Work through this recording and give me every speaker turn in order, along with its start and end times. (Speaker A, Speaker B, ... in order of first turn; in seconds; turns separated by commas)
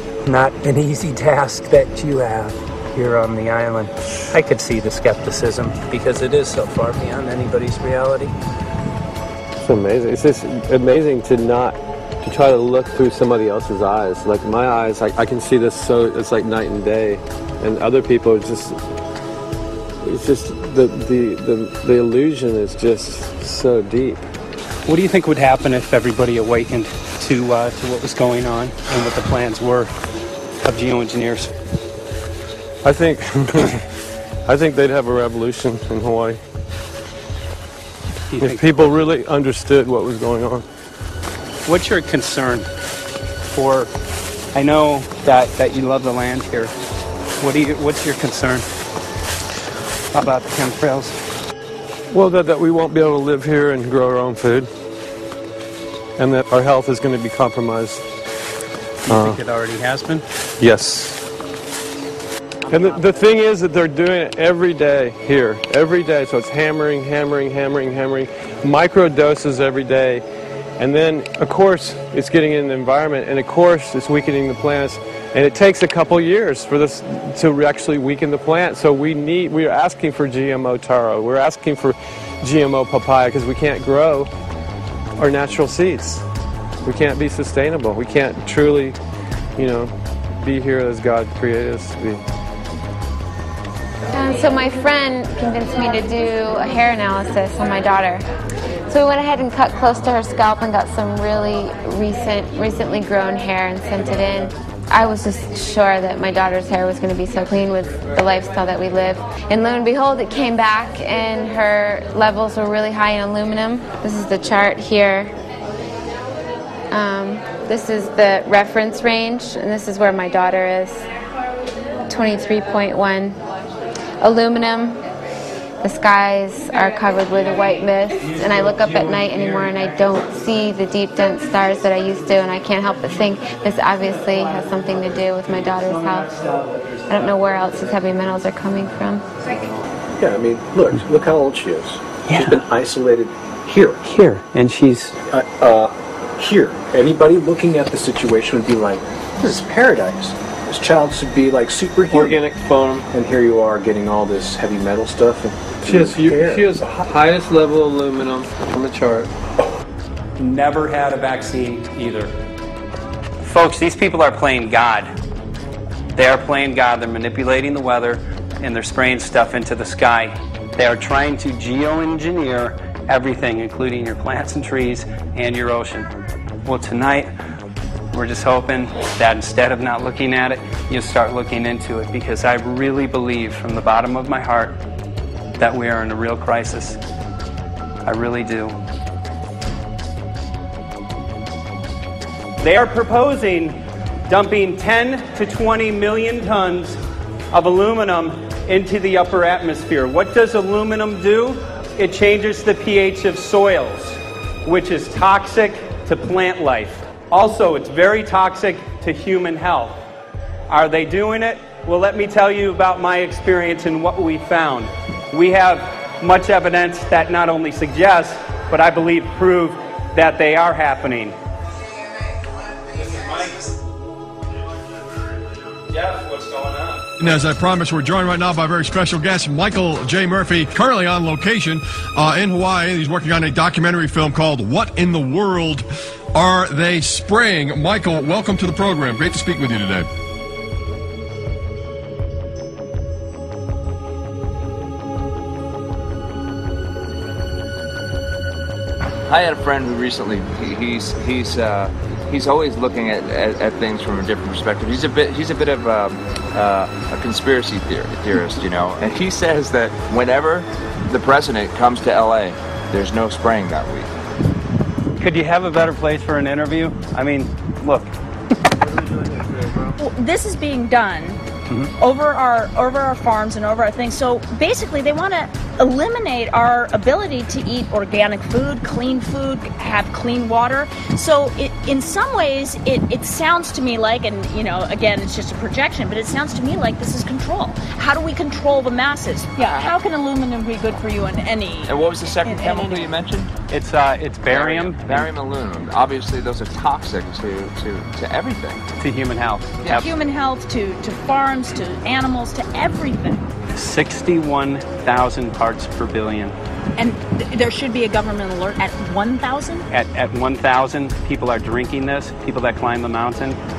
Speaker A: 0.2-8.3, Speaker B: 9.6-18.8, Speaker B: 20.0-24.3, Speaker A: 24.9-29.9, Speaker A: 30.6-31.5, Speaker B: 32.8-33.8, Speaker B: 34.5-36.4, Speaker A: 38.3-39.0, Speaker B: 38.4-40.6, Speaker A: 41.6-42.7, Speaker A: 43.5-43.9, Speaker A: 44.5-46.7, Speaker A: 47.4-48.7, Speaker A: 50.1-51.2, Speaker B: 52.1-54.7, Speaker B: 56.2-58.1, Speaker A: 59.0-60.2, Speaker B: 59.1-59.4, Speaker B: 60.6-61.2, Speaker A: 62.7-63.2, Speaker B: 62.7-70.2, Speaker B: 70.8-84.3, Speaker B: 85.2-86.2, Speaker B: 86.8-89.0, Speaker B: 89.5-92.2, Speaker C: 94.1-98.3, Speaker C: 98.9-115.3, Speaker C: 116.9-121.1, Speaker C: 122.1-123.4, Speaker C: 124.2-125.0, Speaker C: 125.8-136.3, Speaker A: 128.3-129.7, Speaker A: 136.1-137.3, Speaker C: 137.1-139.3, Speaker D: 140.2-143.9, Speaker A: 142.3-142.6, Speaker A: 144.0-145.2, Speaker D: 145.3-145.9, Speaker D: 146.4-152.3, Speaker B: 152.1-153.0, Speaker D: 153.1-156.6, Speaker B: 155.8-159.3, Speaker A: 160.4-162.3, Speaker A: 163.4-165.1, Speaker A: 166.1-177.3, Speaker A: 178.1-184.8, Speaker A: 185.6-187.0, Speaker A: 188.0-188.8, Speaker A: 192.6-197.0, Speaker A: 197.5-210.0, Speaker A: 210.7-221.3, Speaker A: 223.1-223.5, Speaker A: 225.9-227.0, Speaker E: 227.2-240.1, Speaker F: 249.3-264.1, Speaker A: 265.2-268.1, Speaker G: 270.0-271.4, Speaker G: 272.0-293.1, Speaker F: 291.9-293.5, Speaker A: 293.7-295.3, Speaker F: 294.5-298.8, Speaker A: 299.0-300.1, Speaker G: 299.8-303.5, Speaker A: 303.7-306.6, Speaker G: 307.0-309.8, Speaker A: 309.9-313.6